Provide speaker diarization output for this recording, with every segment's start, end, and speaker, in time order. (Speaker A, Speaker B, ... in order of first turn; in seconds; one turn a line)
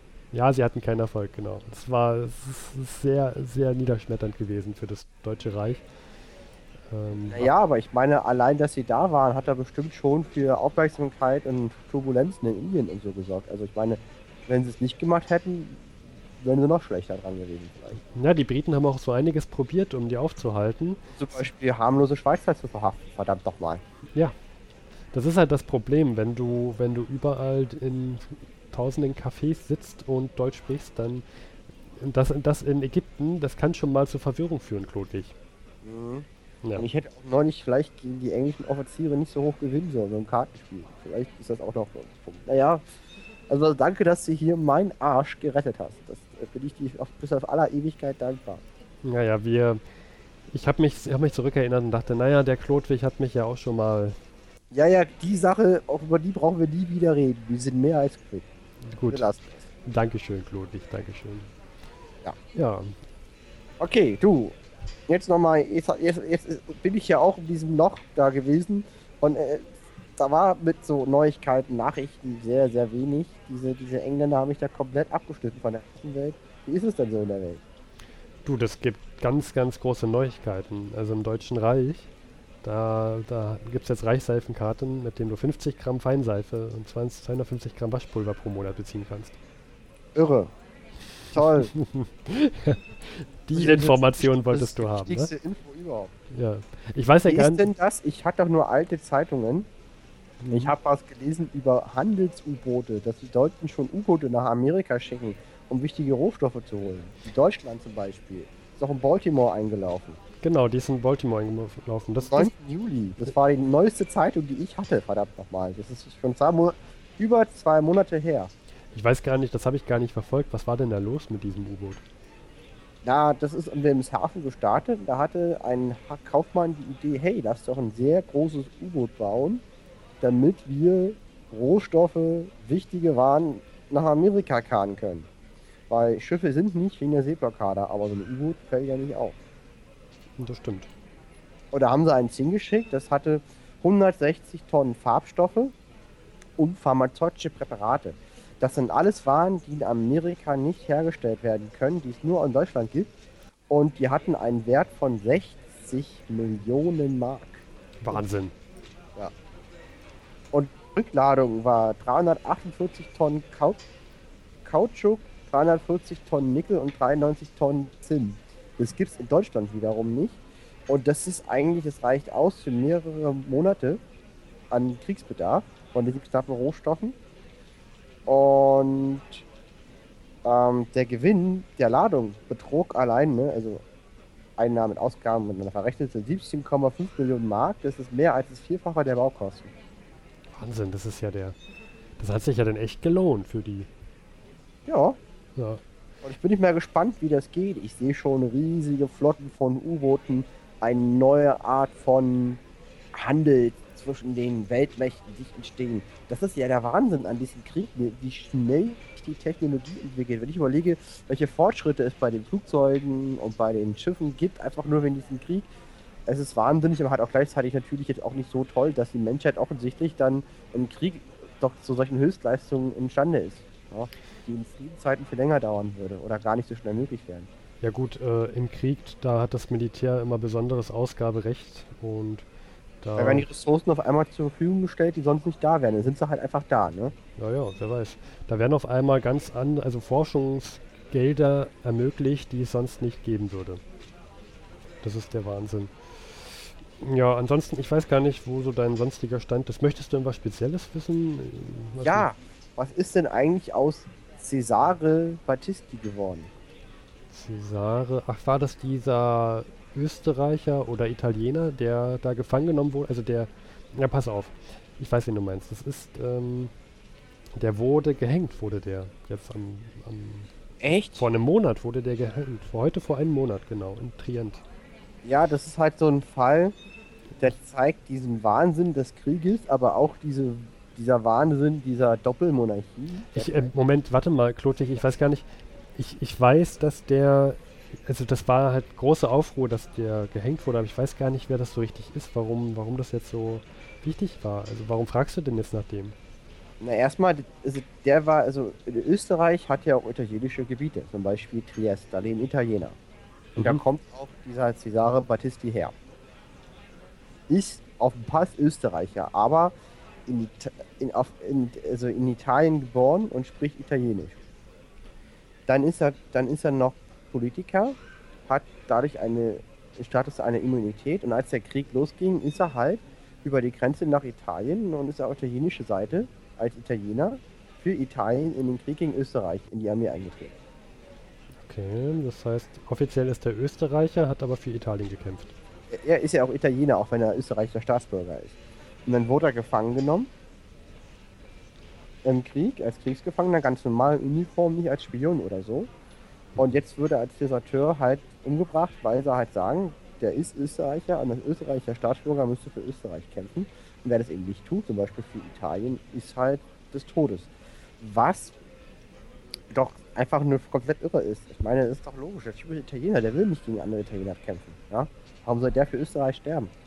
Speaker A: 0.3-5.8
Speaker A: 6.9-7.5
Speaker B: 7.3-18.0
Speaker A: 18.1-21.0
Speaker B: 21.1-23.8
Speaker A: 25.1-31.2
Speaker A: 31.9-35.4
Speaker B: 35.8-42.9
Speaker B: 43.5-48.6
Speaker A: 49.0-49.8
Speaker A: 50.5-54.2
Speaker B: 54.7-58.5
Speaker A: 58.8-59.3
Speaker B: 59.1-59.6
Speaker A: 59.9-61.5
Speaker A: 62.5-63.0
Speaker B: 63.8-64.6
Speaker B: 65.1-77.6
Speaker A: 78.5-82.1
Speaker A: 82.6-89.4
Speaker B: 90.2-90.5
Speaker B: 91.3-91.7
Speaker A: 91.3-95.3
Speaker B: 93.5-96.1
Speaker A: 96.3-97.7
Speaker B: 97.3-99.7
Speaker A: 100.4-100.7
Speaker B: 100.5-110.2
Speaker A: 110.4-112.5
Speaker B: 112.2-118.5
Speaker A: 118.9-122.0
Speaker B: 123.0-129.6
Speaker B: 130.2-135.3
Speaker B: 135.9-139.4
Speaker A: 140.4-140.9
Speaker B: 141.7-145.7
Speaker B: 146.6-153.1
Speaker B: 153.7-158.2
Speaker A: 158.0-158.6
Speaker B: 160.5-163.8
Speaker B: 164.6-174.0
Speaker B: 174.7-177.2
Speaker B: 178.3-179.4
Speaker B: 180.4-183.8
Speaker B: 184.6-189.7
Speaker A: 190.5-191.6
Speaker A: 192.2-193.9
Speaker B: 194.9-195.2
Speaker A: 195.6-195.8
Speaker B: 196.2-202.6
Speaker B: 203.1-215.7
Speaker B: 216.3-227.5
Speaker A: 227.8-232.5
Speaker A: 233.0-233.5
Speaker B: 233.2-237.2
Speaker A: 237.4-243.8
Speaker A: 245.0-252.3
Speaker B: 252.0-256.5
Speaker A: 257.3-266.7
Speaker A: 267.6-270.5
Speaker B: 270.8-271.2
Speaker A: 271.2-274.6
Speaker B: 275.2-276.8
Speaker B: 277.4-283.7
Speaker A: 283.3-296.2
Speaker B: 296.8-303.0
Speaker A: 303.6-303.8
Speaker B: 303.6-305.9
Speaker B: 307.5-309.8
Speaker B: 310.3-314.5
Speaker B: 315.7-330.6
Speaker A: 331.6-335.5
Speaker B: 335.9-340.3
Speaker B: 342.2-345.9
Speaker B: 346.6-358.6
Speaker B: 359.7-366.7